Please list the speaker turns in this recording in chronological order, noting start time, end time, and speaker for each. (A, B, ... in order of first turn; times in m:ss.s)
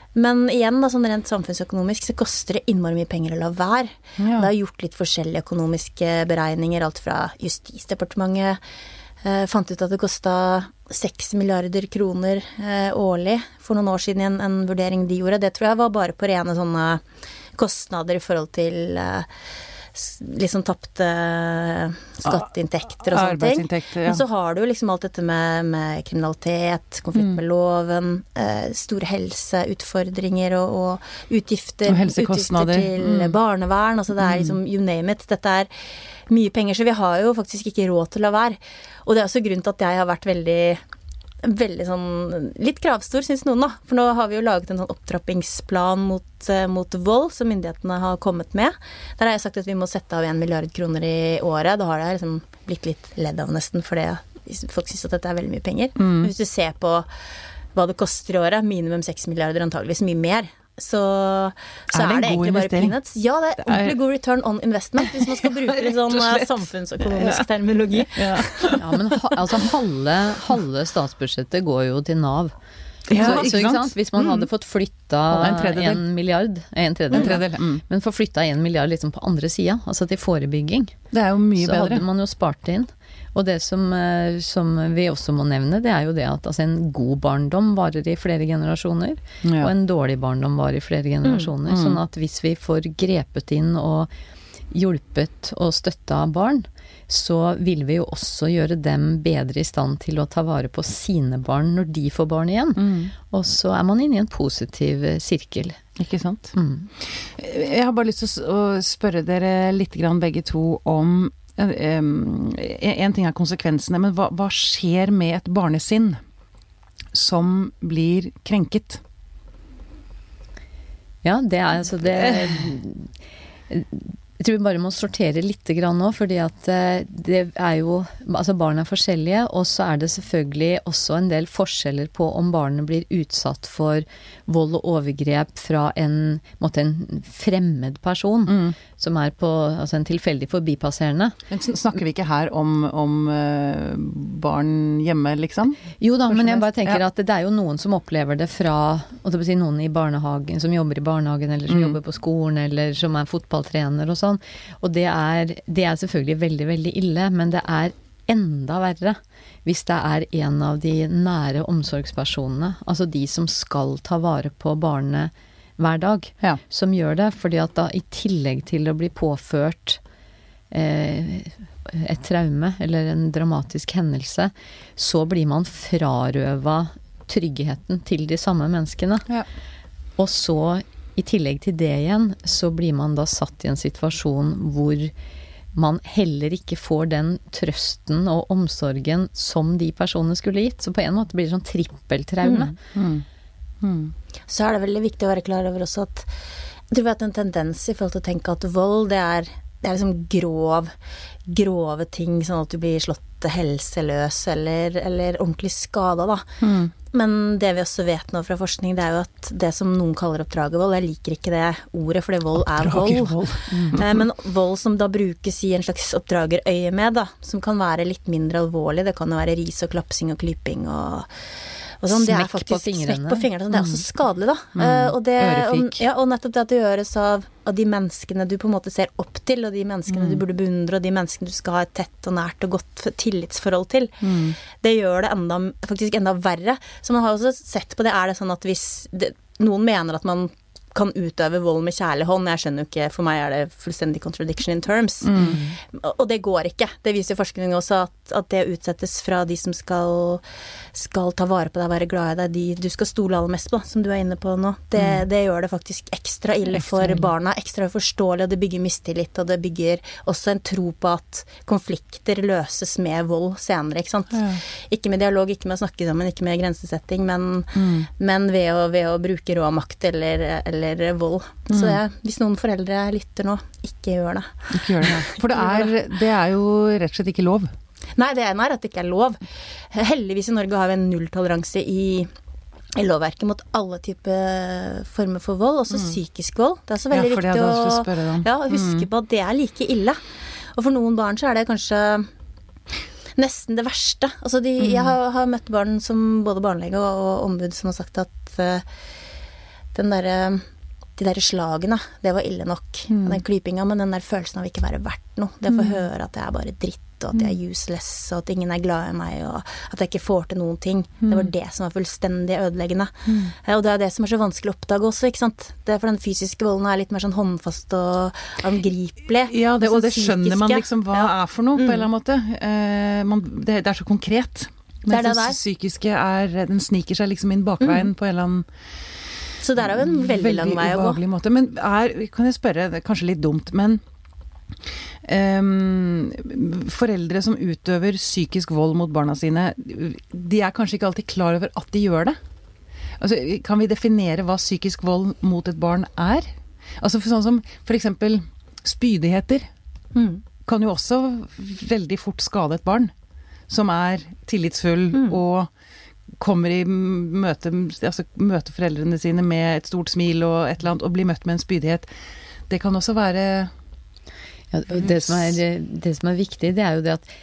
0:00.1-0:08.6 A
0:04.2-0:04.5 B
0:09.2-0:17.0 A
0:17.6-0:19.3 A
0:19.9-0:35.7 A
0:23.0-0:24.2 B
0:31.9-0:33.4 B
0:34.2-0:34.6 B
0:36.3-0:40.8 A
0:41.4-0:57.1 A
0:56.0-0:56.3 B
0:57.7-1:08.8 A
1:01.9-1:03.0 B
1:03.6-1:04.0 B
1:05.0-1:07.5 B
1:08.1-1:08.8 B
1:08.7-1:12.5 C
1:13.1-1:14.5 B
1:13.1-1:21.0 C
1:15.3-1:16.0 B
1:17.1-1:17.8 B
1:21.1-1:22.0 B
1:21.6-1:34.1 C
1:29.4-1:29.7 B
1:31.2-1:31.5 A
1:31.7-1:32.0 B
1:34.7-1:45.8 C
1:42.8-1:43.1 B
1:46.0-1:56.2 B
1:46.5-1:46.9 C
1:57.1-1:59.0 B
2:01.2-2:03.1 C
2:02.1-2:02.6 B
2:03.7-2:21.4 C
2:18.5-2:18.8 B
2:21.5-2:27.0 B
2:26.0-2:50.0 C
2:31.7-2:32.0 B
2:50.7-2:59.2 C
3:00.2-3:05.1 C
3:05.7-3:12.7 C
3:12.4-3:12.7 A
3:12.9-3:13.2 B
3:13.8-3:14.1 B
3:14.5-3:16.3 A
3:16.9-3:20.9 A
3:21.5-3:26.5 A
3:26.6-3:26.9 B
3:27.1-3:41.3 A
3:32.8-3:34.2 B
3:42.0-4:35.9 A
3:42.1-3:43.4 C
3:44.8-3:46.0 B
3:50.1-3:50.4 B
3:54.2-3:54.6 B
4:05.2-4:05.6 B
4:15.0-4:15.2 B
4:16.7-4:17.3 B
4:24.3-4:24.6 B
4:27.7-4:28.1 B
4:31.7-4:32.0 B
4:34.7-4:37.7 B
4:38.2-4:42.3 A
4:42.9-4:50.2 A
4:47.1-4:49.1 B
4:50.7-4:52.3 A
4:53.4-4:58.8 A
4:54.8-4:55.1 B
4:59.9-5:00.6 A
5:01.2-5:22.0 A
5:03.1-5:03.4 B
5:05.7-5:06.0 B
5:11.2-5:11.5 B
5:13.3-5:13.5 B
5:19.5-5:28.7 B
5:25.1-5:25.6 A
5:27.8-5:28.1 A
5:29.6-5:31.2 A
5:29.8-5:34.0 B
5:35.2-5:42.4 B
5:43.2-5:49.7 B
5:50.1-5:50.4 A
5:50.6-5:53.1 B
5:53.7-5:55.7 B
5:55.1-5:55.4 A
5:56.3-6:02.1 B
6:02.7-6:03.7 B
6:04.7-6:07.3 C
6:04.9-6:05.6 B